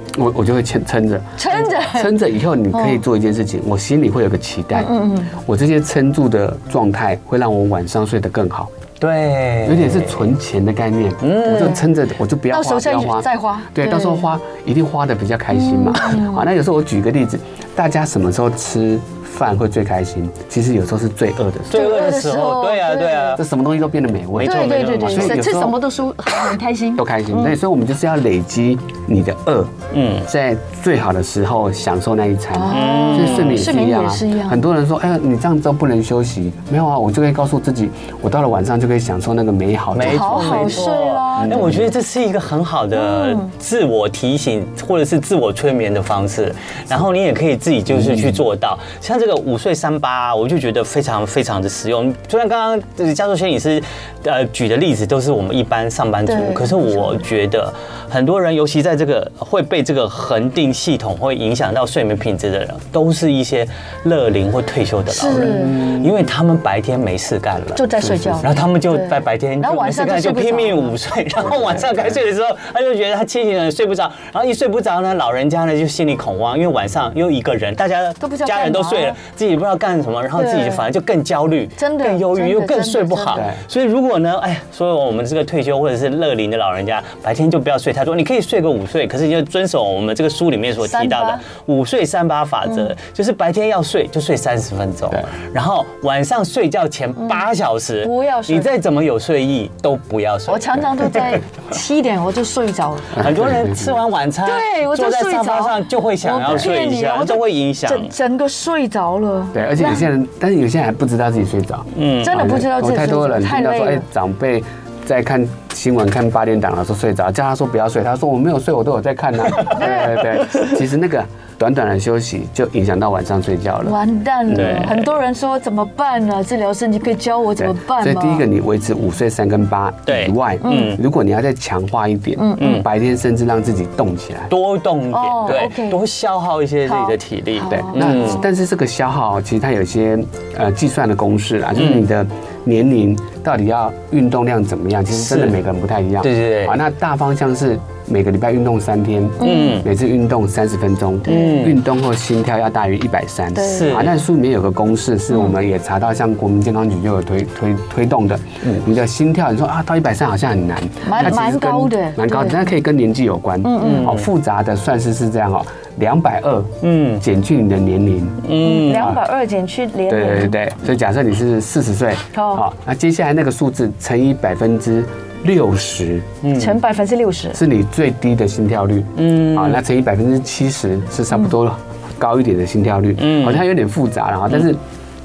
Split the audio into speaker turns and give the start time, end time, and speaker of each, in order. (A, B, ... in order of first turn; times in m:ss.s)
0:00.1-0:08.7 A
0:01.4-0:02.1 B
0:02.7-0:03.0 B
0:04.7-0:05.3 B
0:09.0-0:10.3 C
0:09.6-0:21.8 A
0:11.2-0:11.8 C
0:11.5-0:11.9 B
0:12.5-0:14.3 B
0:15.5-0:16.4 B
0:21.7-0:23.4 C
0:21.7-0:23.4 B
0:23.3-0:25.8 A
0:24.3-0:25.4 C
0:24.4-0:27.6 B
0:27.0-0:41.9 A
0:29.9-0:30.3 C
0:32.5-0:34.6 B
0:32.7-0:33.7 C
0:39.9-1:07.8 C
0:40.0-0:41.7 B
0:42.9-0:43.5 B
0:47.9-0:48.4 A
0:56.2-0:57.1 B
1:05.1-1:05.9 B
1:07.7-1:11.0 B
1:08.0-1:08.6 A
1:08.4-1:41.4 C
1:11.4-1:12.2 A
1:18.2-1:19.2 B
1:20.3-1:20.8 B
1:21.8-1:23.4 B
1:23.3-1:23.6 A
1:30.8-1:31.4 B
1:37.2-1:37.4 B
1:38.0-1:38.7 B
1:40.5-1:43.3 B
1:43.2-1:44.0 A
1:43.2-1:48.1 C
1:44.4-1:50.1 B
1:49.5-2:04.0 A
1:51.9-1:52.5 C
1:52.2-1:54.0 B
1:59.7-2:00.2 B
2:03.8-2:08.5 B
2:04.5-2:05.1 C
2:07.6-2:14.5 A
2:10.0-2:11.0 C
2:10.6-2:11.0 B
2:12.4-2:12.8 B
2:12.6-2:12.8 C
2:14.5-2:18.4 C
2:15.1-2:16.0 B
2:16.9-2:18.4 B
2:17.7-2:49.2 A
2:21.8-2:22.1 C
2:25.1-2:25.6 C
2:26.2-2:26.8 C
2:29.4-2:29.8 B
2:29.4-2:29.9 C
2:31.3-2:31.6 B
2:31.3-2:31.8 C
2:33.5-2:34.0 B
2:33.6-2:34.2 C
2:41.0-2:42.7 B
2:43.6-2:44.1 B
2:43.8-2:44.3 C
2:46.8-2:47.2 C
2:48.4-2:49.2 C
2:48.6-2:50.6 B
2:50.1-2:56.3 A
2:52.3-2:52.6 B
2:56.4-2:56.8 C
2:56.5-2:57.6 B
2:57.5-3:04.8 A
2:59.2-2:59.8 C
3:03.2-3:03.6 C